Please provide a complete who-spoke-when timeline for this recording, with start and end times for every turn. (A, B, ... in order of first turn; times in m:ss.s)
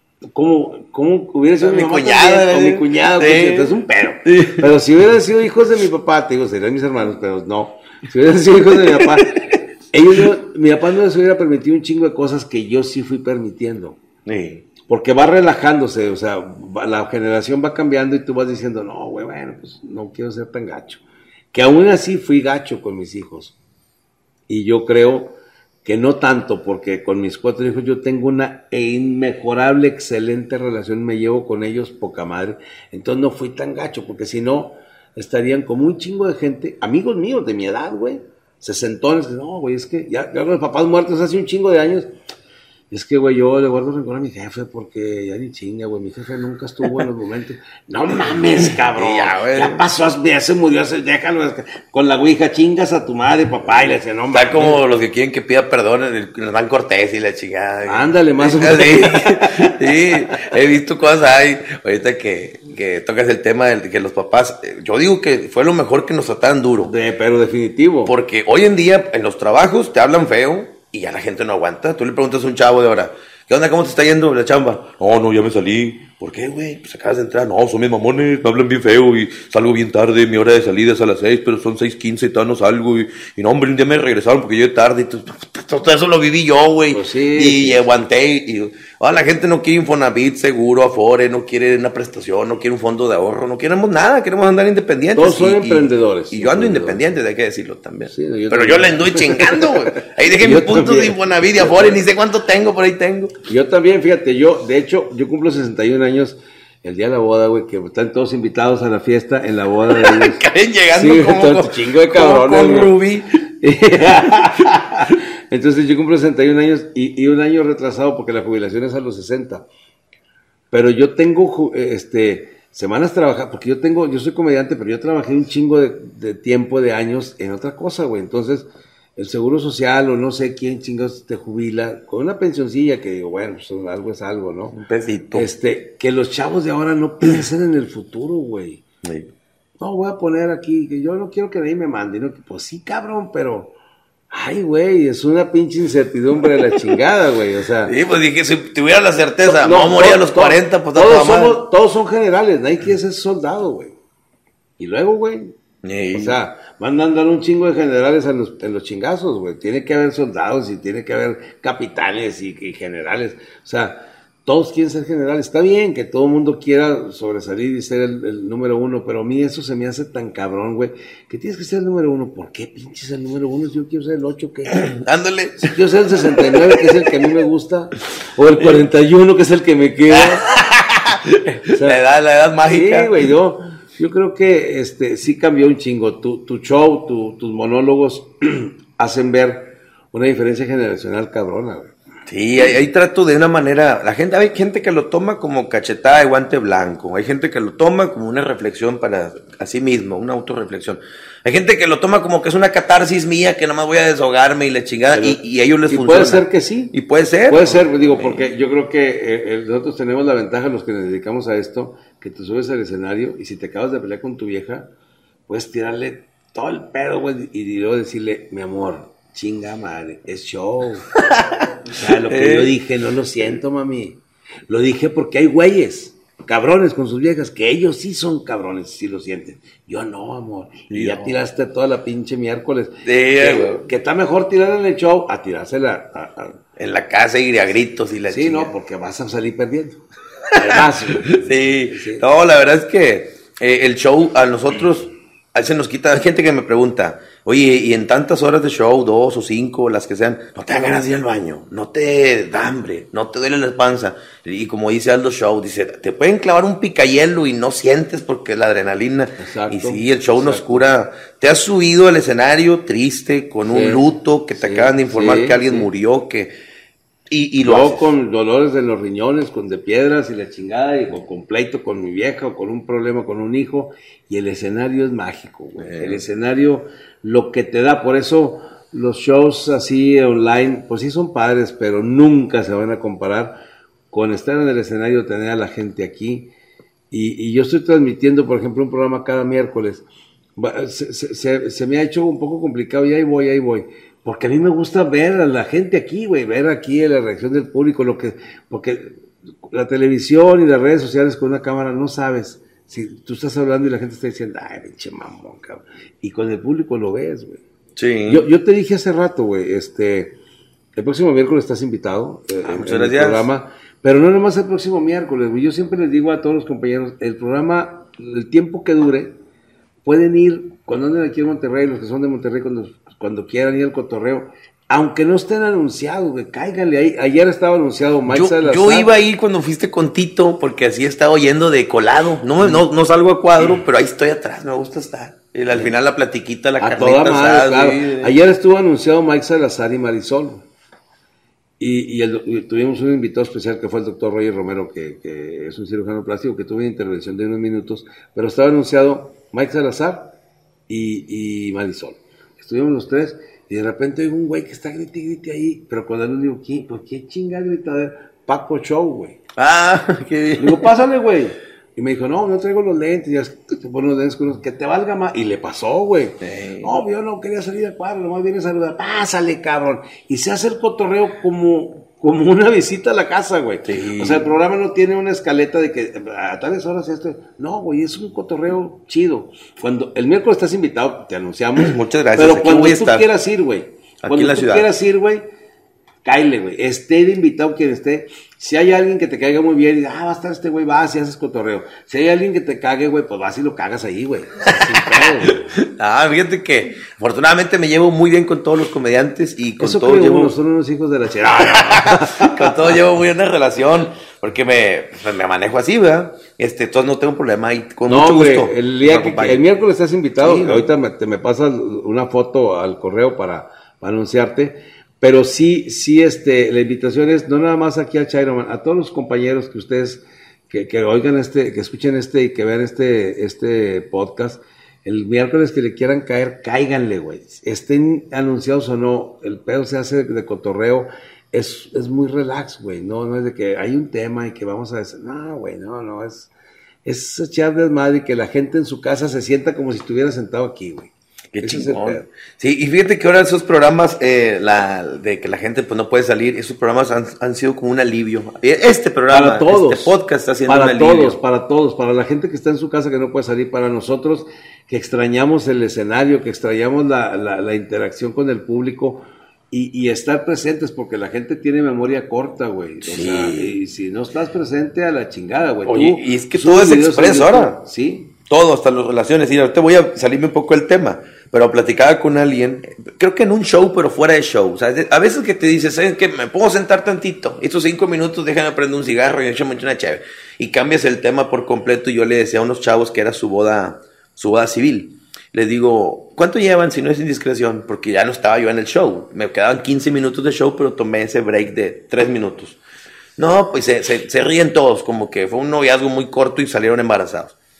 0:00.3-0:14.0 A
0:01.6-0:04.6 B
0:08.8-0:09.1 B
0:14.2-0:14.6 B
0:14.8-0:21.0 A
0:21.5-0:23.6 A
0:24.5-0:42.1 A
0:42.9-0:54.8 A
0:48.8-0:49.8 B
0:54.3-1:06.9 B
0:57.8-0:59.7 A
1:06.8-1:08.1 A
1:08.0-1:43.4 B
1:26.9-1:27.8 A
1:35.1-1:37.0 A
1:38.1-1:42.0 A
1:43.5-1:50.4 A
1:49.9-1:53.4 B
1:50.9-1:52.9 A
1:53.6-1:59.7 A
2:00.7-2:14.8 A
2:14.7-2:15.5 B
2:15.3-2:18.8 A
2:19.0-2:19.3 B
2:19.8-2:23.7 A
2:24.3-2:27.9 A
2:27.8-2:31.6 B
2:29.4-2:34.0 A
2:34.8-2:35.6 A
2:35.8-2:36.4 B
2:36.1-2:54.8 A
2:54.7-2:55.7 B
2:55.6-3:00.5 A
3:00.1-3:03.2 B
3:01.7-3:02.0 A
3:02.7-3:12.0 A
3:12.3-3:28.4 B
3:25.1-3:27.0 A
3:27.5-3:34.9 A
3:35.5-3:41.1 A
3:41.1-3:42.7 B
3:41.9-3:56.6 A
3:50.9-3:51.3 B
3:53.0-3:53.8 B
3:56.8-3:58.7 B
3:58.3-4:02.2 A
4:00.5-4:26.5 B
4:19.4-4:20.8 A
4:23.7-4:24.0 A
4:24.6-4:25.9 A
4:27.3-4:28.1 B
4:27.6-4:46.5 A
4:35.8-4:36.2 B
4:47.1-4:50.0 A
4:50.6-5:07.6 A
5:08.0-5:08.4 B
5:08.3-5:10.4 A
5:10.9-5:19.4 A
5:12.6-5:13.4 B
5:20.0-5:29.1 A
5:28.3-5:38.3 B
5:32.6-5:32.8 A
5:36.8-5:40.6 A
5:41.8-5:50.4 A
5:50.9-5:59.4 A
5:59.6-6:00.9 B
6:00.6-6:25.4 A
6:06.4-6:06.9 B
6:13.8-6:14.5 B
6:21.8-6:23.3 B
6:24.2-6:24.9 B
6:26.2-6:35.7 A
6:34.8-6:40.5 B
6:39.8-6:43.0 A
6:41.6-6:49.6 B
6:48.1-7:16.5 A
6:50.4-6:50.9 B
7:17.0-7:22.3 A
7:21.5-7:31.4 B
7:29.3-7:30.1 A
7:30.6-7:48.3 A
7:43.0-7:43.7 B
7:45.8-7:47.8 B
7:48.4-8:12.8 B
8:13.4-8:17.5 B